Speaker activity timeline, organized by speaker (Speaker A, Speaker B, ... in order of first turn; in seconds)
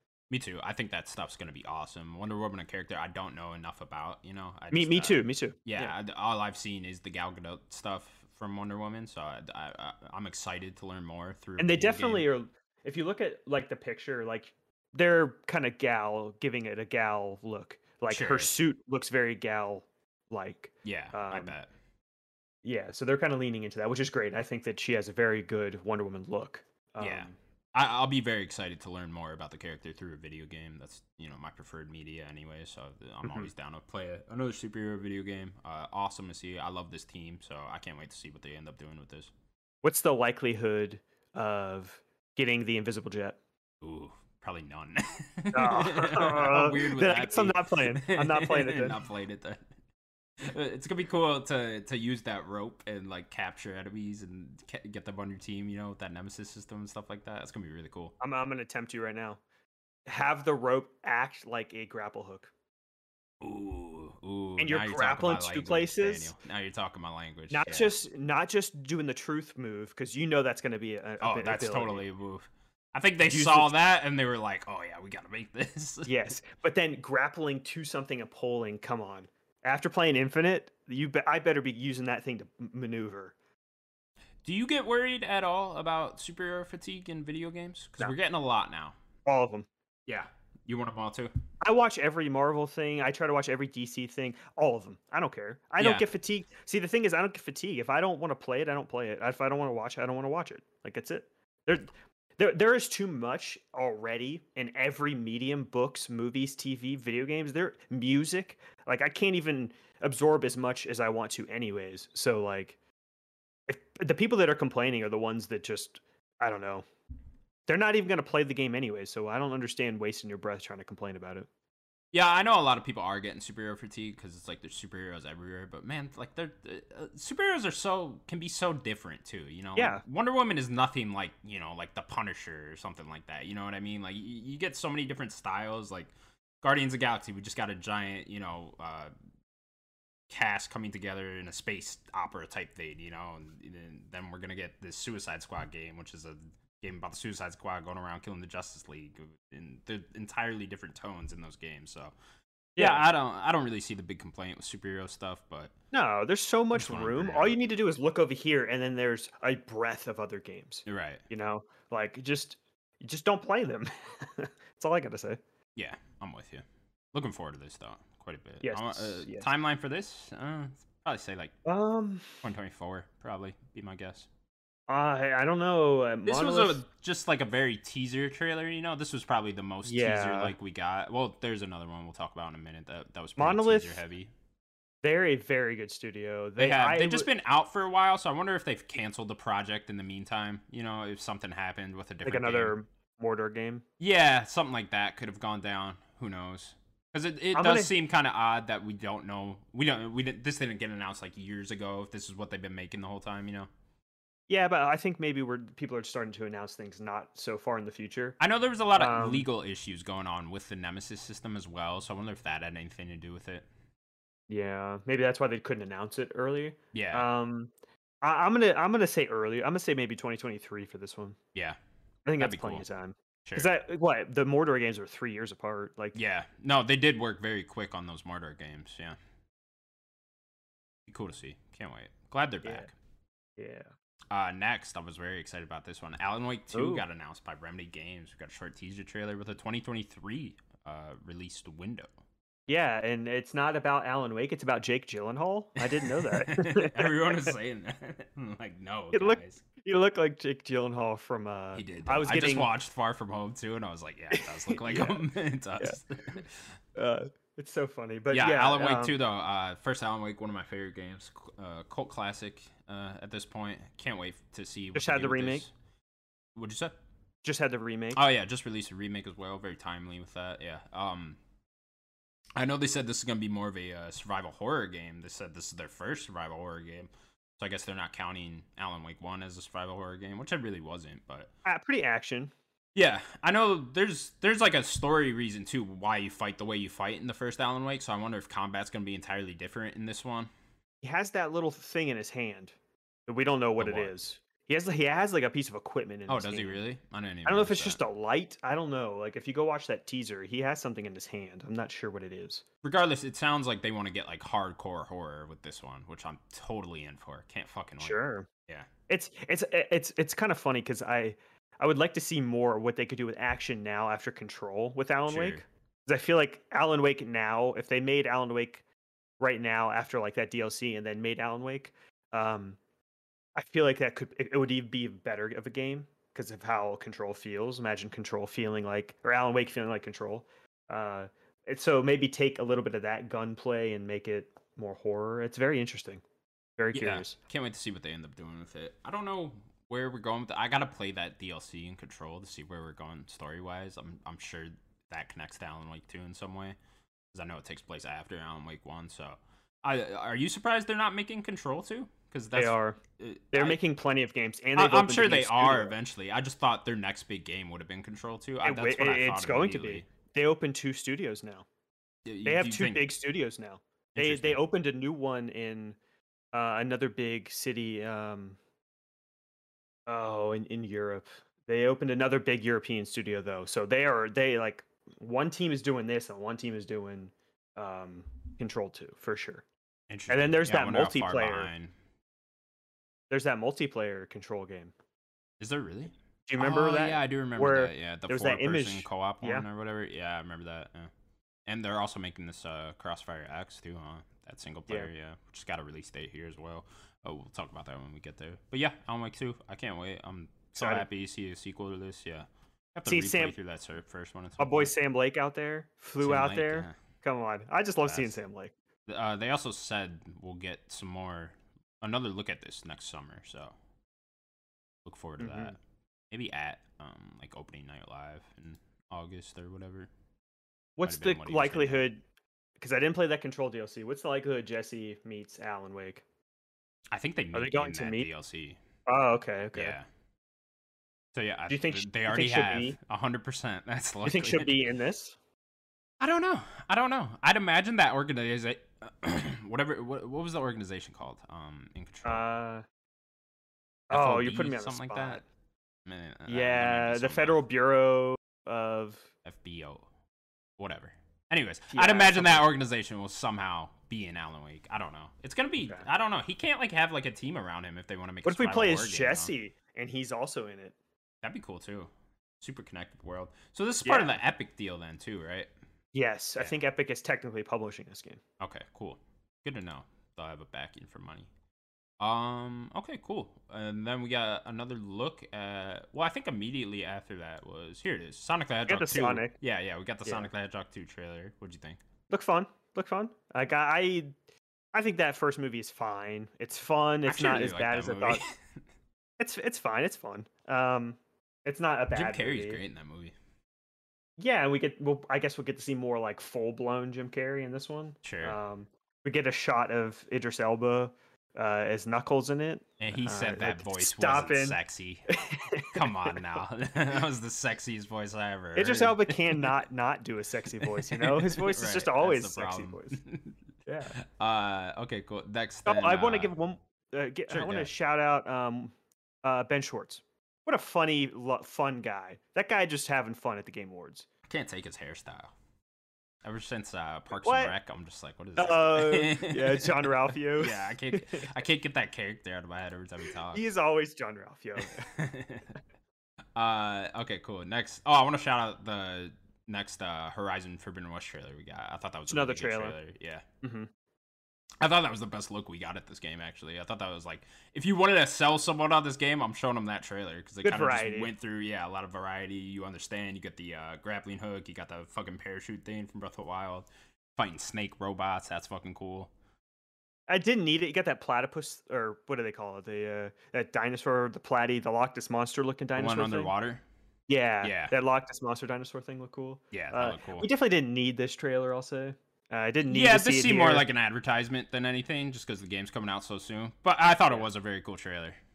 Speaker A: 0.3-12.3, 18.1-18.6, 20.9-21.7, 27.0-39.3, 43.8-49.6, 50.4-58.2, 63.4-67.9, 71.2-76.1, 84.4-89.0, 90.1-91.3, 95.8-96.1, 122.1-139.1, 140.3-152.1, 152.8-155.7, 156.7-157.6, 160.9-161.2, 165.8-171.6, 172.4-174.3, 176.2-184.3, 186.6-192.8, 194.0-203.7, 208.4-213.7, 216.9-217.3, 221.5-221.8, 222.4-222.9, 223.4-223.7, 226.2-229.2, 231.1-232.9, 234.3-242.1, 245.8-249.6, 251.7-256.8, 258.3-265.7, 266.6-266.9, 268.1-271.4, 272.6-281.5, 282.9-290.5, 293.8-294.1, 296.3-298.0, 302.8-308.9, 315.3-315.6, 336.9-346.8, 347.3-353.8, 354.8-360.1, 362.3-363.1, 364.1-364.6, 380.1-381.9, 385.6-391.1, 391.7-404.9, 406.2-406.9, 408.1-408.4, 409.1-413.7, 415.1-415.8, 416.3-420.1, 421.1-422.1, 427.1-428.8, 429.8-430.1, 431.3-434.8, 436.2-442.4, 444.1-445.4, 446.1-447.6, 449.4-450.1, 450.8-459.5, 461.4-465.7, 468.6-471.5, 472.2-482.0, 487.3-488.8, 492.1-493.4, 498.2-498.6, 503.0-505.3, 505.9-509.8, 510.8-513.5, 514.1-516.5, 517.5-517.9, 524.5-525.5, 526.4-533.7, 534.8-535.8, 536.6-543.5, 544.8-559.3, 566.0-566.8, 567.6-567.9, 569.7-570.5, 572.9-578.4
Speaker B: 4.7-6.0, 11.6-21.6, 22.6-27.4, 33.2-33.5, 39.8-43.4, 45.5-49.0, 58.2-59.4, 60.1-62.5, 64.6-66.3, 67.5-72.0, 73.3-73.7, 76.0-83.3, 89.3-89.7, 91.6-112.8, 113.7-116.8, 117.7-121.5, 129.8-130.0, 152.8-153.1, 155.9-165.4, 168.6-169.5, 171.7-172.4, 174.9-176.8, 179.8-180.6, 183.4-184.0, 185.0-187.3, 192.2-193.8, 197.5-197.9, 204.5-208.4, 208.9-209.5, 214.5-217.7, 218.2-221.4, 222.3-226.2, 232.6-232.9, 233.6-233.9, 236.7-237.0, 242.7-247.6, 249.1-252.7, 254.3-255.2, 256.9-259.2, 264.9-265.6, 267.4-268.2, 281.6-282.5, 291.0-292.8, 293.3-296.8, 297.5-302.6, 308.0-308.5, 309.1-318.8, 319.4-322.8, 323.6-336.2, 336.8-337.4, 352.5-353.0, 353.5-355.9, 358.6-361.6, 362.4-366.0, 366.5-368.6, 370.1-379.6, 380.3-381.7, 383.3-384.9, 386.5-389.6, 400.8-401.1, 403.1-403.6, 404.6-408.7, 415.4-415.8, 421.0-422.2, 422.8-426.2, 427.5-428.3, 429.1-430.0, 431.7-433.0, 434.2-435.4, 442.2-442.8, 444.1-445.4, 446.5-449.3, 451.9-452.7, 458.4-461.0, 464.1-464.4, 466.1-468.4, 478.9-479.5, 482.3-484.3, 484.9-488.4, 489.4-492.8, 494.4-504.8, 505.3-506.4, 508.8-513.2, 513.9-514.2, 515.9-518.9, 519.4-524.3, 527.4-527.7, 528.6-531.5, 533.5-535.1, 542.3-543.0, 543.6-543.9, 550.6-551.3, 560.3-566.5, 567.3-573.9